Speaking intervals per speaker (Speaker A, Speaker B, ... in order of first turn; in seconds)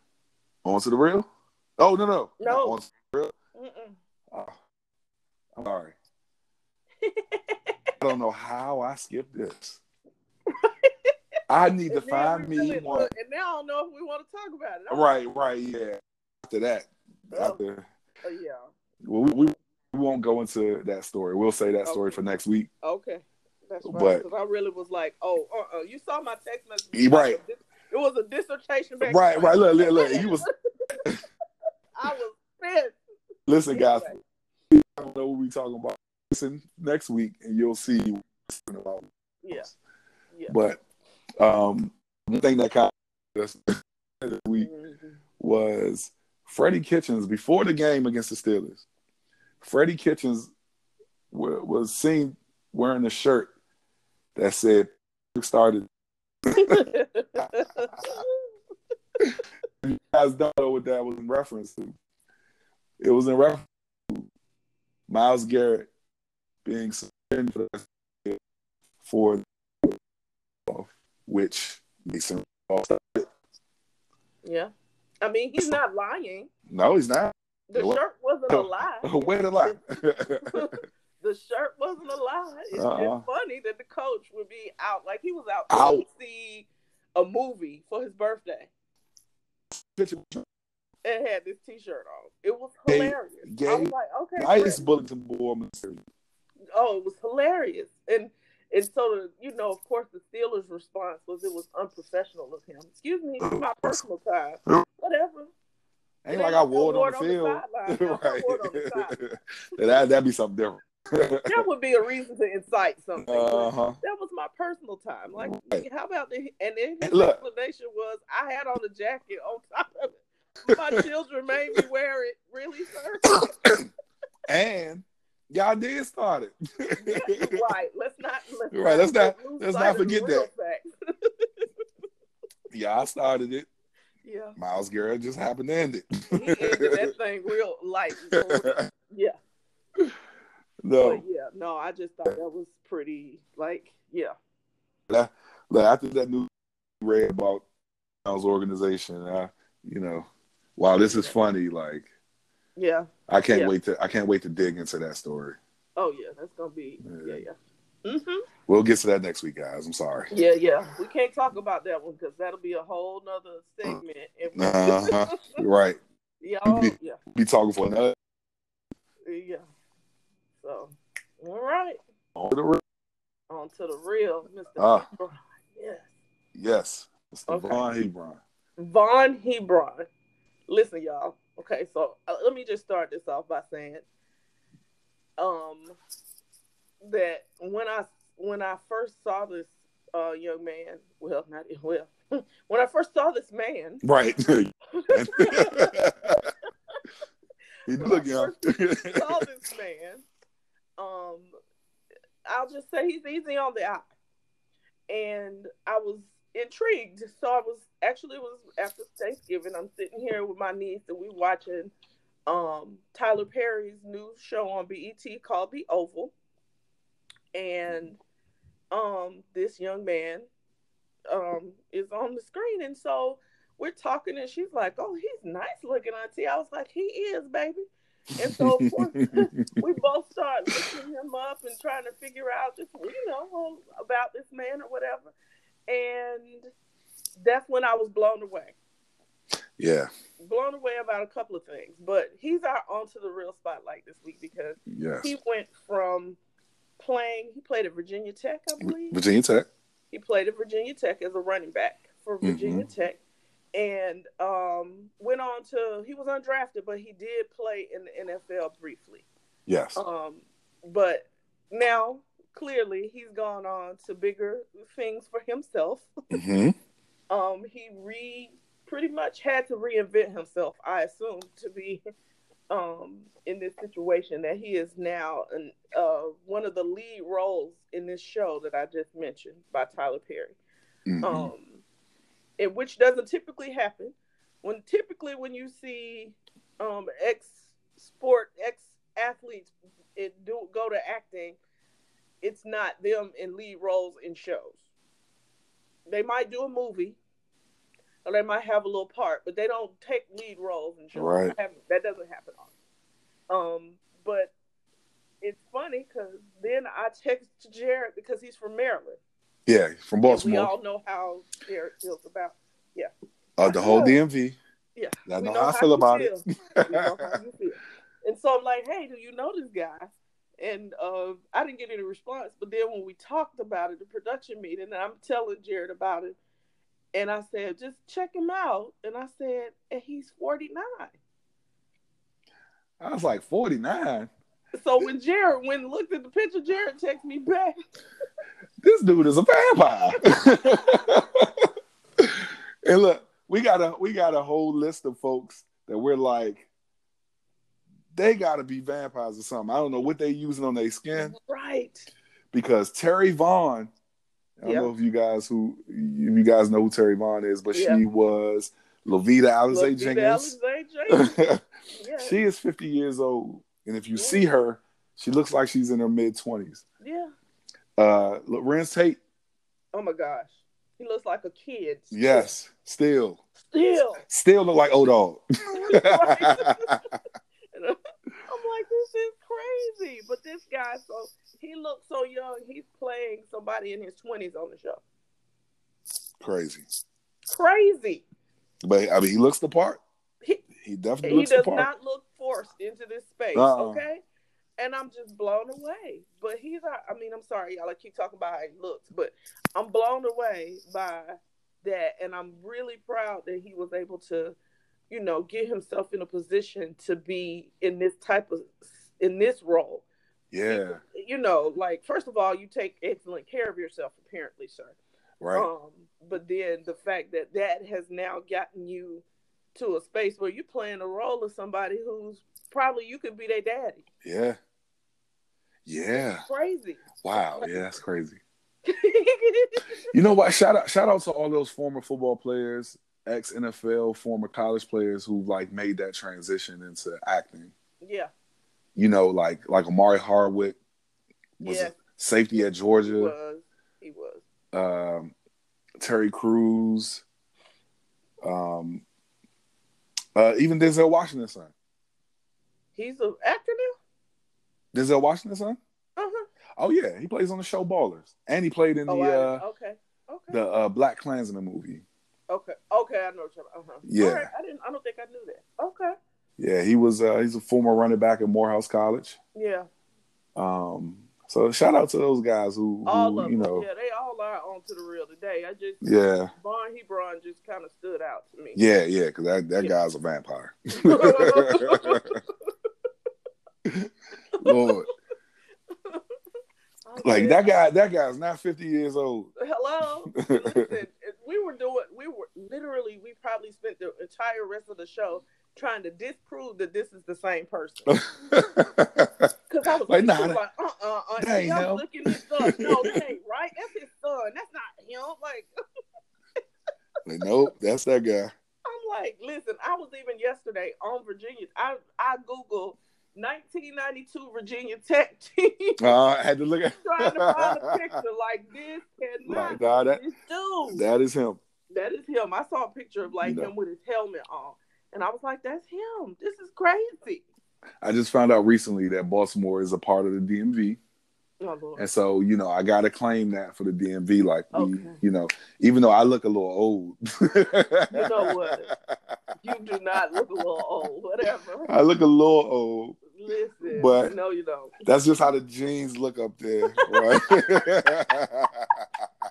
Speaker A: 0.6-1.3, 1.8-3.3, 4.3-4.5, 5.5-5.9, 8.0-9.8, 11.5-13.1, 14.9-17.9, 19.0-22.7, 23.8-24.2, 26.9-27.4, 29.0-30.4, 33.5-34.1, 34.7-39.7, 40.5-40.8, 41.4-44.7, 45.4-48.8, 49.6-50.5, 51.3-53.5, 54.3-55.9, 56.5-56.8, 59.2-62.0, 63.0-64.2, 65.1-65.9, 66.6-68.4, 69.0-70.0, 70.7-73.3, 76.7-78.0, 78.5-80.6, 82.7-83.2, 85.7-86.0, 89.7-90.4, 92.9-96.0, 103.4-104.0, 106.2-111.6, 113.2-114.0, 115.4-115.8, 117.0-117.4, 120.7-121.0, 123.2-123.9, 124.5-127.5, 128.7-130.5, 132.7-133.7, 134.6-137.1, 138.3-138.8, 140.8-141.2, 145.1-146.5, 147.0-147.6, 148.2-152.1, 153.3-155.6, 157.0-157.4, 158.7-160.3, 164.5-166.0, 166.7-168.1, 172.3-172.8, 174.8-175.1, 176.5-178.4, 194.0-196.4, 197.8-199.4, 228.5-229.6, 239.8-240.1, 244.9-245.3, 248.8-249.7, 252.4-252.9, 259.7-260.0, 266.3-266.7, 281.1-281.5, 301.1-301.5, 309.6-310.7, 313.6-314.6, 315.2-317.2, 333.0-334.3, 338.8-341.7, 342.2-346.7, 348.1-351.3, 352.5-353.9, 354.6-360.6, 361.1-361.6, 362.2-366.8, 368.0-369.2, 372.1-373.4, 374.2-376.9, 386.4-386.8, 388.8-390.0, 390.8-391.9, 393.5-394.0, 410.5-411.0, 415.4-415.7, 424.2-424.6, 425.9-426.4, 427.2-428.4, 430.1-437.7, 438.9-440.8, 441.6-443.3, 444.7-445.3, 446.0-447.2, 448.4-449.0, 450.3-451.7, 454.9-455.8, 456.8-459.6, 460.5-462.0, 464.0-464.5, 466.6-469.4, 470.6-473.9, 476.0-476.5, 478.7-482.4, 483.9-485.1, 487.2-489.5, 490.3-490.9, 498.1-499.5, 500.0-500.6, 501.4-503.1, 507.2-508.5, 516.0-518.0, 519.5-520.2, 520.9-521.6, 523.4-523.7, 528.0-531.0, 532.0-538.9, 541.9-543.2, 543.9-544.3, 545.0-549.0
Speaker B: 2.4-2.8, 3.5-4.0, 7.0-7.8, 10.5-10.9, 11.9-15.2, 17.3-17.6, 18.2-18.7, 21.9-22.2, 22.8-31.0, 32.0-33.0, 33.7-34.2, 39.4-39.7, 44.6-45.2, 56.5-58.4, 74.4-74.7, 75.2-76.5, 77.7-79.8, 80.4-88.7, 91.0-94.9, 96.7-105.5, 106.3-109.2, 111.5-123.5, 127.0-131.6, 134.2-134.6, 136.3-139.3, 141.0-144.3, 150.9-151.4, 152.8-153.7, 156.0-158.4, 160.3-165.6, 166.4-167.2, 169.2-169.6, 170.6-172.0, 173.5-176.1, 177.5-177.9, 178.8-180.1, 180.7-184.0, 185.4-186.0, 187.0-194.0, 194.9-195.9, 198.0-200.2, 201.0-201.5, 202.4-204.1, 205.1-211.9, 212.5-216.3, 217.5-218.2, 218.9-220.5, 221.3-227.8, 228.3-235.3, 235.9-236.7, 237.4-238.8, 240.4-246.4, 247.0-249.2, 250.1-253.2, 253.7-259.2, 259.9-266.1, 267.3-272.0, 272.7-280.6, 281.2-281.8, 282.6-291.6, 292.4-294.8, 296.1-297.2, 298.2-302.7, 303.5-304.5, 305.4-309.2, 310.2-313.1, 313.6-314.2, 314.9-326.4, 327.1-331.1, 334.8-337.8, 351.1-352.1, 354.6-354.9, 357.7-358.0, 359.7-361.3, 361.9-362.4, 364.1-364.5, 367.0-367.3, 369.9-372.5, 373.7-374.2, 375.7-377.0, 377.7-385.0, 387.5-388.2, 391.2-394.2, 394.8-404.6, 405.1-410.1, 410.7-415.0, 415.5-419.2, 419.7-424.0, 426.1-427.9, 428.9-429.8, 438.0-438.3, 441.6-442.0, 442.9-444.4, 452.9-453.9, 456.2-456.4, 459.1-460.6, 462.5-466.1, 469.5-469.9, 473.1-476.0, 476.5-478.8, 481.0-482.5, 484.6-485.0, 485.9-486.2, 487.1-487.7, 489.6-498.2, 499.7-505.7, 508.8-516.0, 517.0-521.0, 521.9-527.4, 531.6-532.0, 534.7-535.2, 538.1-538.9, 539.6-541.9, 543.3-544.9, 547.0-547.9